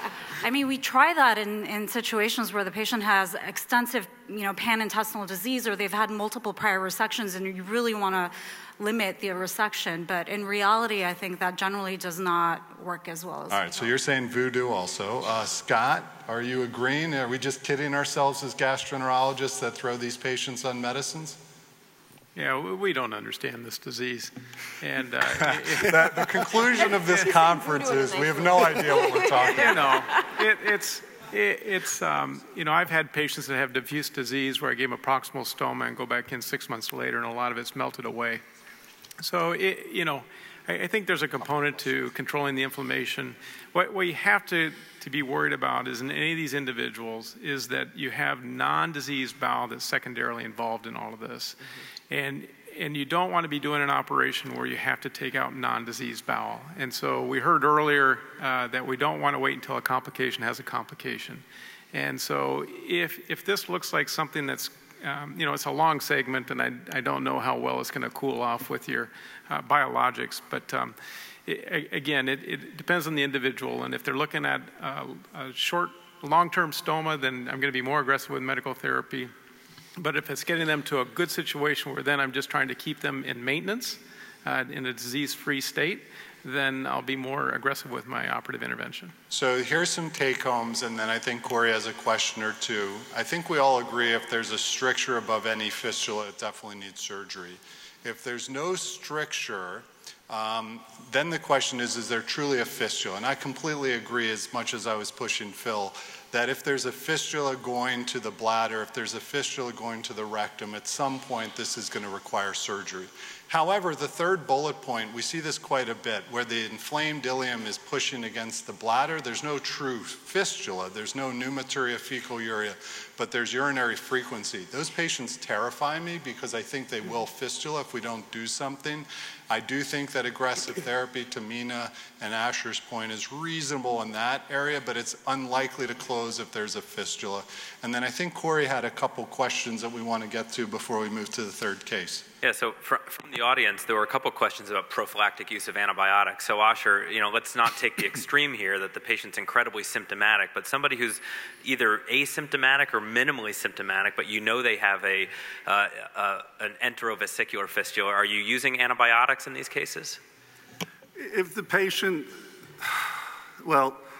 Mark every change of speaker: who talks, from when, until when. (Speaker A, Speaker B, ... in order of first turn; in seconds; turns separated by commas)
Speaker A: 0.4-13.9, Speaker B: 13.5-21.4, Speaker C: 22.4-26.5, Speaker B: 25.6-29.9, Speaker C: 29.4-38.4, Speaker C: 39.2-51.6, Speaker C: 52.1-79.3, Speaker C: 80.0-89.1, Speaker B: 89.3-142.2, Speaker D: 142.4-160.2, Speaker E: 161.2-163.1, Speaker E: 163.6-164.0